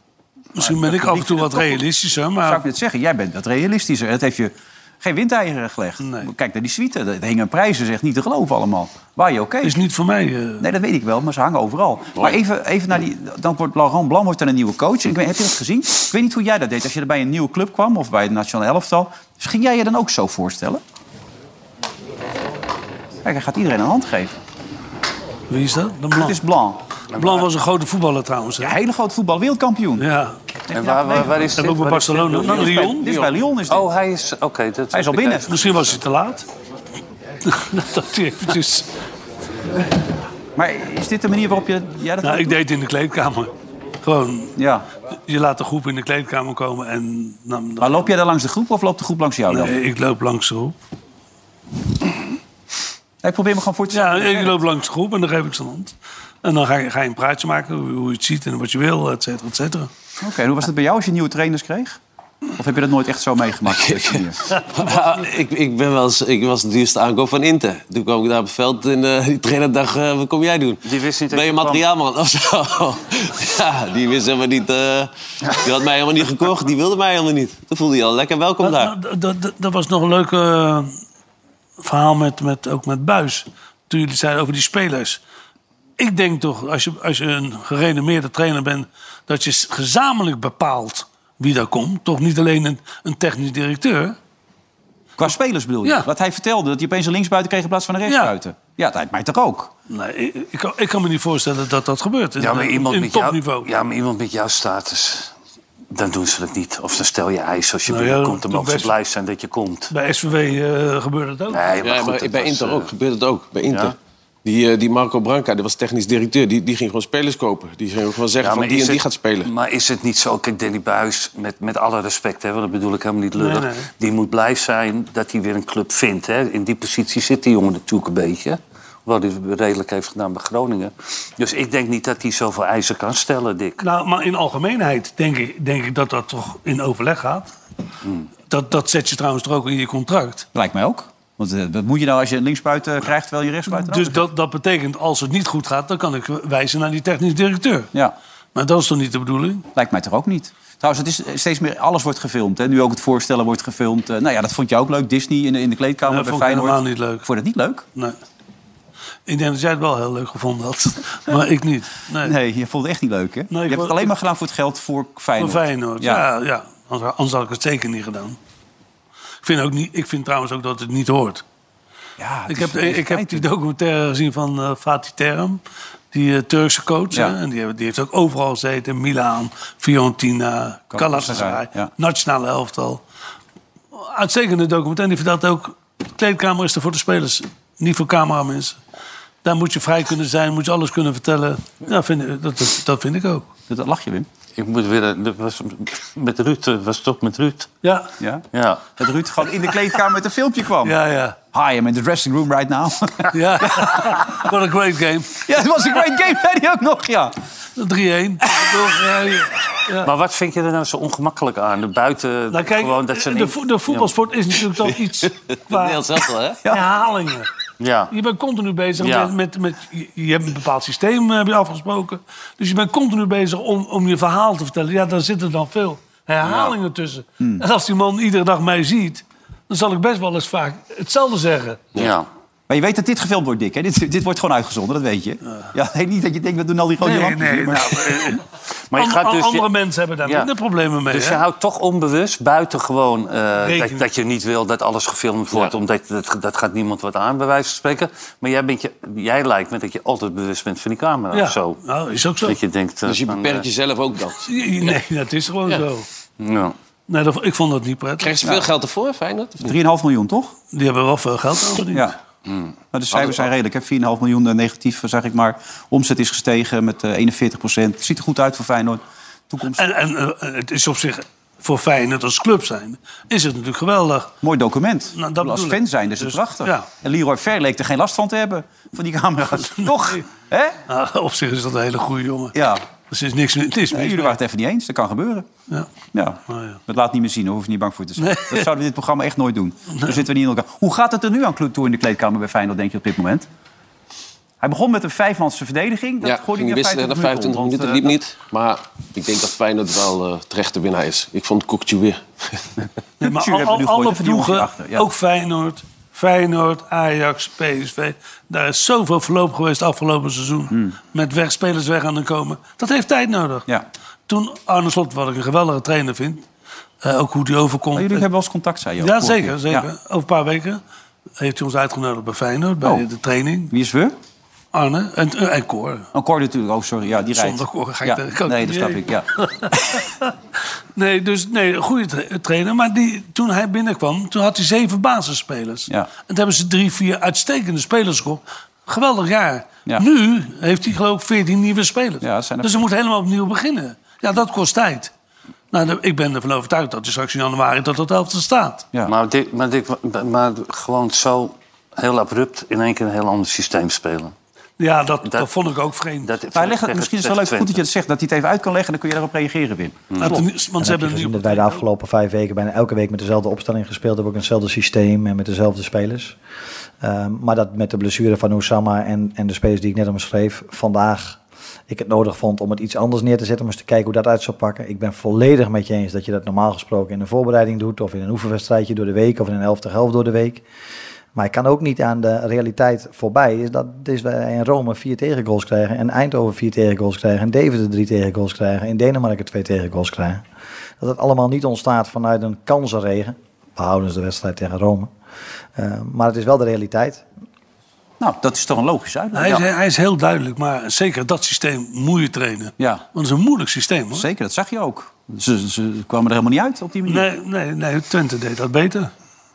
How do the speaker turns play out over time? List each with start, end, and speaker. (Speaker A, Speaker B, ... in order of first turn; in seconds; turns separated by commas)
Speaker A: 0.6-2.6, Speaker B: 0.6-1.9, Speaker B: 2.4-9.8, Speaker A: 6.0-6.3, Speaker A: 9.6-10.7, Speaker B: 10.6-20.8, Speaker B: 23.2-24.3, Speaker A: 25.5-26.4, Speaker B: 26.1-26.8, Speaker C: 27.1-27.5, Speaker A: 27.2-28.8, Speaker B: 28.6-30.1, Speaker A: 30.0-30.4, Speaker B: 30.7-31.5, Speaker C: 30.7-33.0, Speaker A: 31.6-33.1, Speaker B: 32.5-33.9, Speaker D: 32.6-33.2, Speaker C: 33.7-36.0, Speaker B: 34.9-35.5, Speaker A: 35.5-36.5, Speaker A: 37.5-38.9, Speaker B: 40.6-42.6, Speaker A: 42.2-43.5, Speaker A: 44.0-44.5, Speaker B: 44.6-44.9, Speaker A: 45.3-47.9, Speaker B: 47.8-49.8, Speaker A: 49.5-50.7, Speaker B: 53.2-54.6, Speaker A: 53.9-59.9, Speaker B: 60.2-62.0, Speaker B: 62.6-64.5, Speaker D: 63.7-70.8, Speaker C: 70.8-71.8, Speaker D: 71.3-79.0, Speaker A: 78.6-80.9, Speaker A: 81.8-85.2, Speaker A: 86.0-94.2, Speaker B: 95.2-99.7, Speaker A: 98.1-98.3, Speaker A: 99.9-103.7, Speaker C: 102.4-105.3, Speaker C: 105.9-109.9, Speaker A: 107.9-108.9, Speaker A: 109.9-111.8, Speaker C: 111.5-112.9, Speaker D: 111.8-119.5, Speaker C: 113.7-113.9, Speaker C: 118.4-133.8, Speaker A: 123.4-123.9, Speaker A: 133.8-137.5, Speaker A: 138.5-140.5, Speaker B: 140.5-144.2, Speaker A: 143.7-147.9, Speaker A: 148.6-149.7, Speaker B: 149.8-157.9, Speaker A: 156.1-157.3, Speaker A: 159.3-162.3, Speaker B: 162.2-166.2, Speaker A: 163.5-164.1, Speaker A: 165.4-168.4, Speaker A: 169.4-171.4, Speaker B: 172.2-173.5, Speaker A: 172.5-175.6, Speaker A: 176.1-183.0, Speaker B: 180.9-181.9, Speaker A: 183.9-188.8, Speaker A: 189.4-193.5, Speaker B: 193.7-194.3, Speaker C: 194.6-197.7, Speaker A: 197.8-198.1, Speaker B: 198.2-198.4, Speaker C: 198.5-198.8, Speaker B: 199.0-201.0, Speaker A: 200.8-201.4, Speaker B: 201.5-204.3, Speaker A: 203.3-205.3, Speaker B: 205.4-207.3, Speaker A: 207.8-210.1, Speaker C: 210.0-214.1, Speaker A: 212.5-216.1, Speaker D: 215.7-216.6, Speaker A: 216.7-217.5, Speaker C: 217.8-218.1, Speaker A: 218.1-231.8, Speaker C: 219.0-219.3, Speaker C: 226.4-226.8, Speaker B: 227.4-227.7, Speaker C: 231.9-232.3, Speaker B: 232.7-238.4, Speaker A: 237.0-238.4, Speaker C: 238.9-239.7, Speaker A: 238.9-241.4, Speaker C: 240.2-240.5, Speaker C: 241.1-251.8, Speaker A: 243.6-244.0, Speaker A: 251.3-252.6, Speaker C: 252.4-253.7, Speaker D: 253.1-255.0, Speaker A: 254.5-256.1, Speaker C: 256.4-256.8, Speaker A: 257.1-258.4, Speaker D: 258.2-259.8, Speaker B: 258.4-258.7, Speaker B: 259.6-260.6, Speaker A: 260.7-262.1, Speaker B: 262.9-269.8, Speaker D: 263.1-263.5, Speaker A: 269.8-274.3, Speaker B: 274.4-280.8, Speaker A: 275.2-276.9, Speaker A: 279.6-280.2, Speaker A: 280.9-282.6, Speaker B: 282.6-282.8, Speaker A: 283.1-284.4, Speaker B: 283.9-285.5, Speaker B: 286.1-293.5, Speaker A: 286.5-286.8, Speaker A: 288.2-288.7, Speaker B: 294.6-298.2, Speaker D: 296.2-302.7, Speaker B: 303.2-305.1, Speaker A: 303.2-313.7, Speaker B: 310.7-311.0, Speaker A: 314.3-316.4, Speaker A: 317.0-318.2, Speaker B: 317.9-319.9, Speaker A: 319.0-320.8, Speaker A: 321.4-323.7, Speaker B: 323.7-324.1, Speaker A: 324.7-326.1, Speaker B: 326.1-330.0, Speaker A: 327.3-330.3, Speaker A: 331.0-345.1, Speaker B: 342.2-342.8, Speaker A: 345.7-348.9, Speaker C: 349.1-354.3, Speaker A: 354.8-356.3, Speaker C: 356.2-357.8, Speaker B: 356.5-360.5, Speaker C: 360.1-360.4, Speaker A: 360.2-361.8, Speaker E: 360.8-366.4, Speaker E: 367.0-380.6, Speaker E: 381.4-390.4, Speaker E: 391.0-395.1, Speaker E: 395.8-397.2, Speaker B: 398.2-399.6, Speaker A: 399.3-404.2, Speaker B: 402.8-403.1, Speaker B: 404.1-407.3, Speaker A: 407.1-409.1